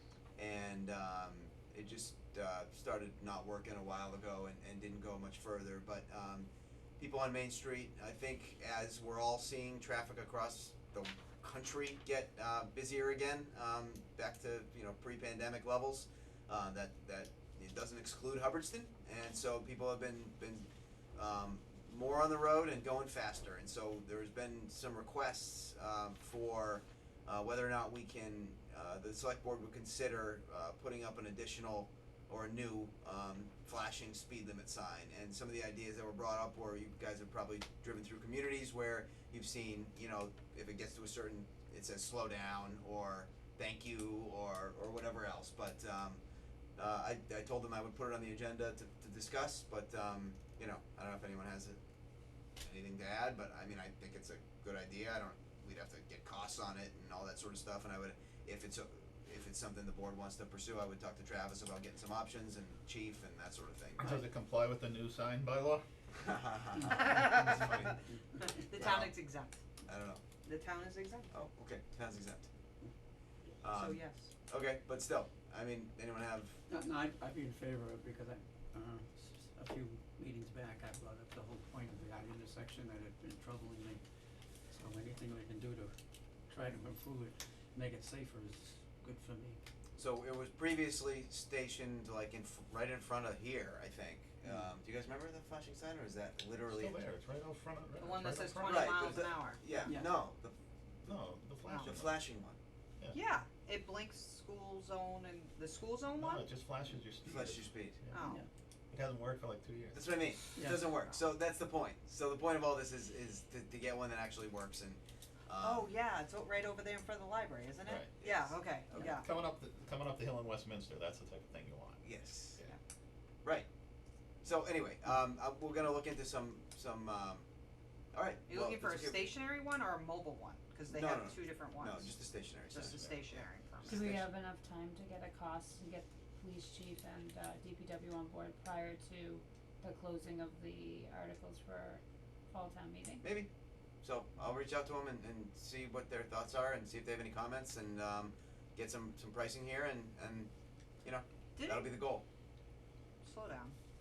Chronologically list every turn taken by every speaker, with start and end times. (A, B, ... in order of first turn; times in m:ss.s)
0:00.4-0:46.2 A
0:46.8-0:51.8 A
0:52.6-1:04.1 A
1:04.0-1:05.8 B
1:06.2-1:08.0 A
1:06.9-1:07.7 C
1:07.3-1:07.9 B
1:08.4-1:09.6 C
1:08.8-1:09.1 A
1:09.9-1:10.2 A
1:10.4-1:11.3 C
1:11.3-1:12.5 A
1:13.6-1:16.6 A
1:13.7-1:14.3 C
1:16.7-1:24.0 D
1:24.7-1:25.9 D
1:26.5-1:29.6 D
1:30.0-1:37.0 A
1:36.7-1:39.2 B
1:38.0-1:39.9 C
1:38.7-1:40.6 A
1:39.8-1:40.1 D
1:41.0-1:42.2 B
1:41.8-1:42.6 A
1:43.1-1:46.5 C
1:46.2-1:48.2 B
1:47.2-1:48.0 A
1:48.1-1:48.4 C
1:48.2-1:48.5 D
1:48.9-1:50.1 B
1:49.9-1:55.9 A
1:50.6-1:50.9 D
1:55.6-1:59.3 C
1:57.8-1:58.1 B
1:58.2-1:58.5 A
1:59.0-2:02.7 B
2:02.0-2:02.6 A
2:04.4-2:07.5 A
2:08.1-2:09.3 A
2:08.5-2:12.2 C
2:10.9-2:14.3 A
2:12.7-2:14.1 C
2:13.9-2:23.2 E
2:23.2-2:23.5 A
2:24.0-2:30.5 A
2:31.0-2:32.2 A
2:31.6-2:31.9 C
2:33.2-2:33.8 C